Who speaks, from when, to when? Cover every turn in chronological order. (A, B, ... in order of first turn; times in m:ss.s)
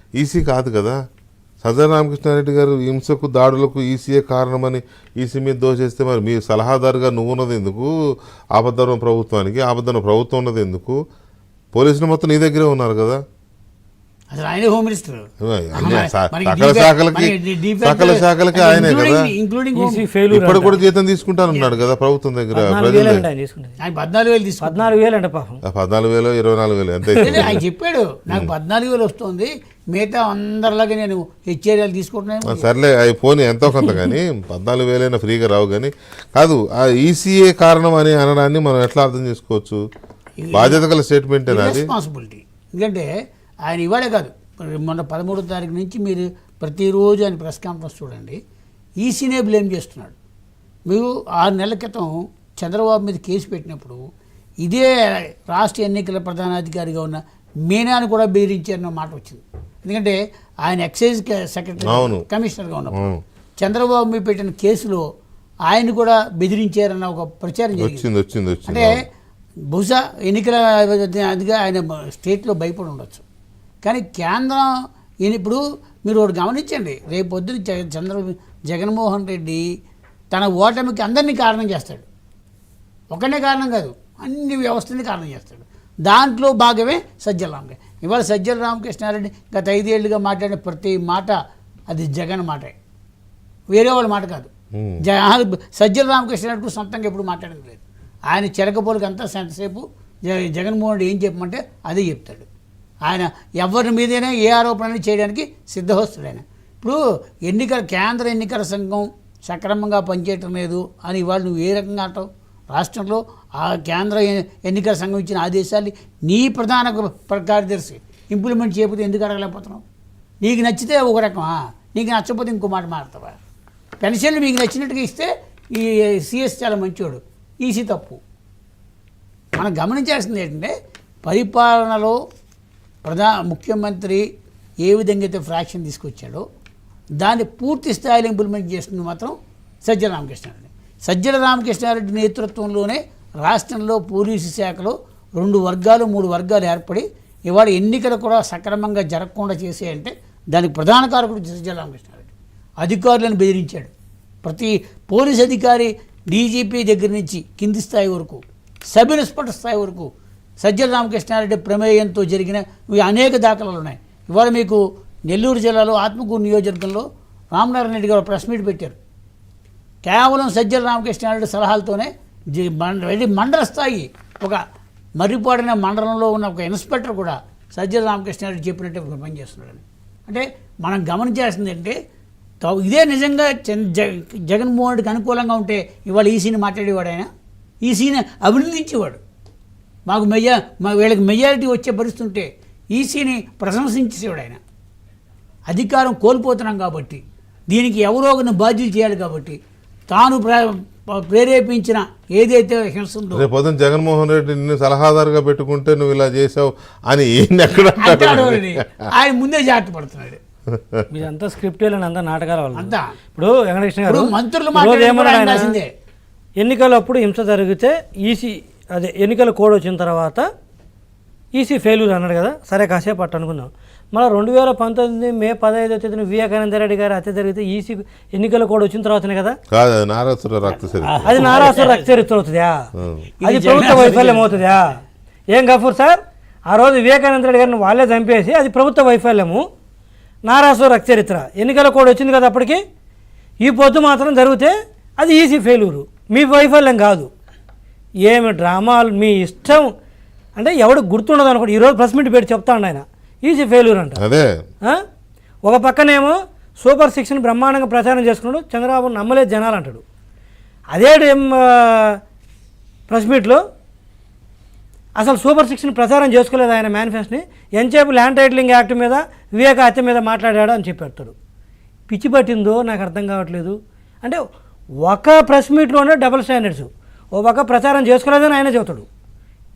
0:00.2-0:01.0 A
0:01.6-0:07.9 A
0:08.5-0:11.0 A
0:11.7-0:13.2 A
0:14.3-0:20.0 B
0:15.4-0:19.3 A
0:19.7-0:20.8 C
0:20.3-0:23.2 A
0:21.5-0:21.7 B
0:22.5-0:23.8 C
0:23.8-0:24.8 B
0:24.6-0:25.6 C
0:25.6-0:27.6 A
0:27.2-0:32.7 B
0:32.5-0:39.8 A
0:40.4-0:40.8 B
0:40.5-0:41.9 A
0:41.5-0:43.1 B
0:43.7-0:48.4 B
0:49.0-0:50.2 B
0:50.9-0:54.0 B
0:54.6-1:03.1 B
1:01.8-1:02.2 A
1:03.6-1:05.0 B
1:05.7-1:08.1 B
1:07.8-1:08.9 A
1:08.6-1:09.0 B
1:09.7-1:13.2 B
1:13.8-1:14.7 B
1:15.2-1:19.6 B
1:20.3-1:22.0 B
1:23.1-1:31.4 B
1:31.9-1:32.7 B
1:33.7-1:34.5 B
1:34.8-1:35.0 A
1:35.0-1:42.5 B
1:43.0-1:59.8 B
2:00.4-2:03.4 B
2:04.0-2:08.2 B
2:09.6-2:10.7 B
2:11.2-2:12.2 B
2:13.0-2:14.2 B
2:14.8-2:16.4 B
2:17.2-2:32.3 B
2:32.8-2:33.9 B
2:34.4-2:38.4 B
2:38.9-2:40.1 B
2:40.6-2:49.0 B
2:50.0-2:54.6 B
2:55.2-3:02.0 B
3:02.6-3:07.3 B
3:07.8-3:09.2 B
3:10.1-3:14.6 B
3:15.7-3:19.6 B
3:20.1-3:23.4 B
3:23.3-3:28.7 A
3:27.9-3:30.4 B
3:31.1-3:35.8 C
3:32.7-3:33.1 B
3:34.0-3:35.9 B
3:36.6-3:40.4 C
3:41.5-3:49.6 C
3:49.7-3:51.5 A
3:50.9-3:52.0 B
3:51.2-3:52.8 C
3:53.0-3:53.3 A
3:53.4-3:54.6 B
3:53.4-3:54.9 C
3:55.5-3:59.6 C
4:00.5-4:02.8 C
4:03.6-4:07.3 C
4:08.2-4:09.9 C
4:10.6-4:14.2 C
4:14.2-4:14.5 A
4:15.6-4:20.0 C
4:20.9-4:22.2 C
4:23.1-4:23.6 C
4:25.2-4:31.3 C
4:32.1-4:34.4 C
4:35.0-4:39.0 C